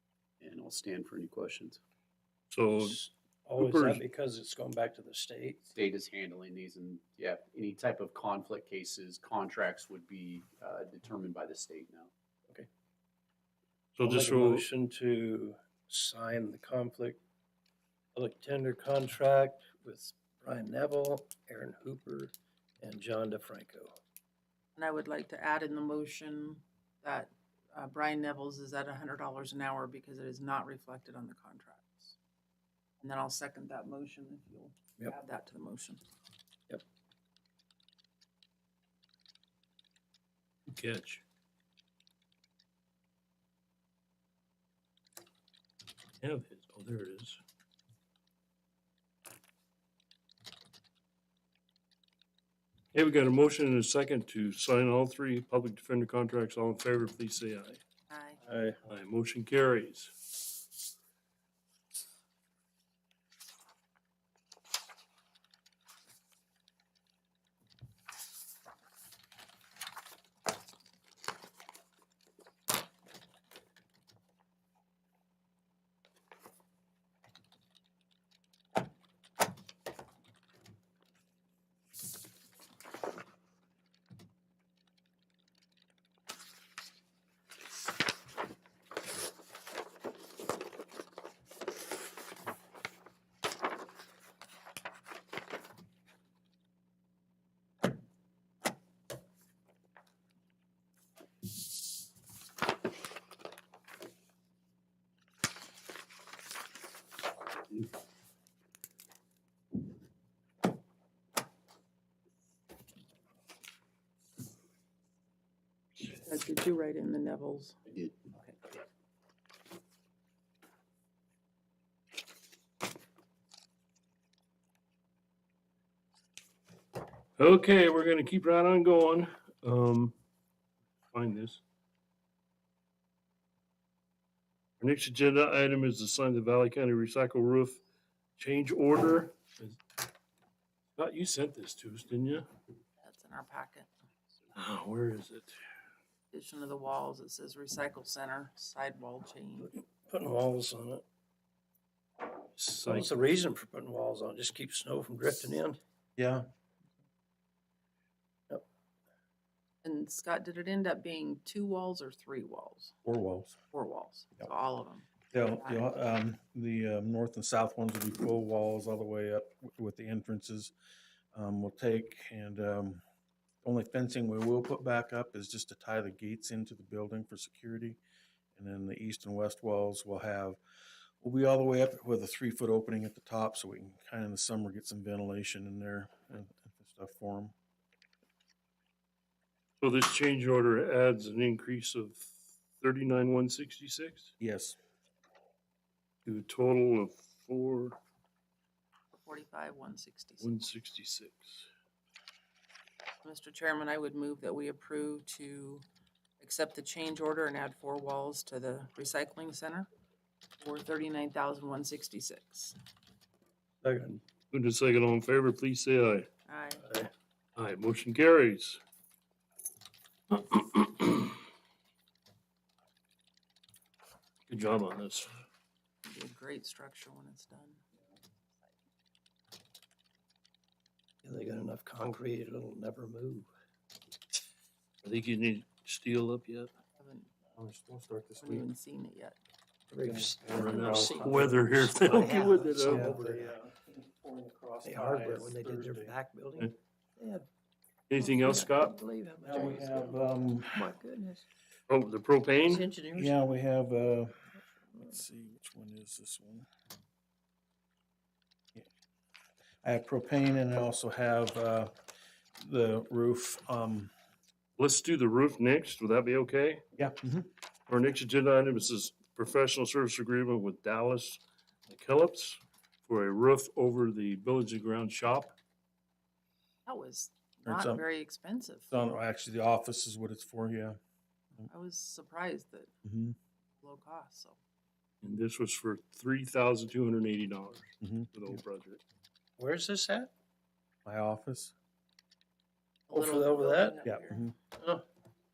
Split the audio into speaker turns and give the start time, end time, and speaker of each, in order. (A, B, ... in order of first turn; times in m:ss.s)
0:00.4-0:01.8 A
0:02.5-0:03.0 B
0:02.8-0:05.7 C
0:03.6-0:04.0 B
0:05.8-0:12.1 A
0:14.0-0:14.7 B
0:14.0-0:17.2 C
0:18.2-0:23.9 C
0:24.8-0:32.2 D
0:33.0-0:36.0 D
0:40.7-0:41.2 B
0:46.2-0:47.4 B
0:52.9-0:57.8 B
0:58.1-0:58.4 D
0:58.5-0:58.8 C
0:58.8-1:00.4 B
1:56.1-1:57.8 D
1:57.9-1:58.3 A
2:07.4-2:10.2 B
2:11.1-2:11.6 B
2:14.8-2:17.8 B
2:18.4-2:19.8 B
2:21.0-2:22.5 B
2:23.0-2:23.9 D
2:24.6-2:25.6 B
2:26.3-2:29.7 D
2:29.6-2:31.0 C
2:32.6-2:35.8 C
2:32.6-2:33.2 B
2:36.2-2:36.4 E
2:39.8-2:43.0 D
2:43.0-2:43.6 E
2:43.7-2:46.0 D
2:45.3-2:50.7 E
2:51.3-2:53.0 E
2:53.6-2:58.0 E
2:58.6-3:00.6 E
3:01.2-3:07.6 E
3:09.8-3:14.3 B
3:14.4-3:14.8 E
3:16.2-3:18.0 B
3:19.1-3:20.5 D
3:20.4-3:21.7 B
3:23.2-3:25.8 D
3:26.4-3:29.9 D
3:30.6-3:32.8 D
3:33.8-3:34.2 C
3:34.5-3:36.3 B
3:36.5-3:36.8 D
3:36.8-3:37.1 C
3:37.6-3:38.8 B
3:40.3-3:41.4 B
3:44.5-3:45.4 B
3:46.0-3:47.8 D
3:51.2-3:53.5 C
3:55.0-3:56.7 B
3:57.0-3:57.3 D
3:57.6-3:58.7 E
3:58.4-3:59.4 D
3:59.9-4:03.5 C
4:00.0-4:01.7 E
4:00.5-4:03.2 B
4:02.8-4:06.1 E
4:04.8-4:07.5 C
4:08.1-4:09.0 B
4:08.2-4:11.5 C
4:09.4-4:10.9 E
4:11.9-4:12.9 B
4:12.7-4:13.4 C
4:13.1-4:14.5 E
4:15.0-4:16.7 E
4:19.8-4:21.9 E
4:22.6-4:24.1 E
4:24.8-4:26.8 B
4:27.0-4:27.5 E
4:27.9-4:35.6 B
4:36.9-4:38.9 D
4:37.6-4:38.0 E
4:38.9-4:41.0 E
4:41.7-4:42.9 D
4:43.0-4:43.4 E
4:43.8-4:44.6 D
4:45.2-4:49.0 B
4:48.0-4:48.6 E
4:49.6-4:50.3 C
4:51.0-4:51.7 E
4:53.1-4:54.4 D
4:53.1-4:54.0 C
4:54.0-4:54.6 E
4:54.8-4:55.0 C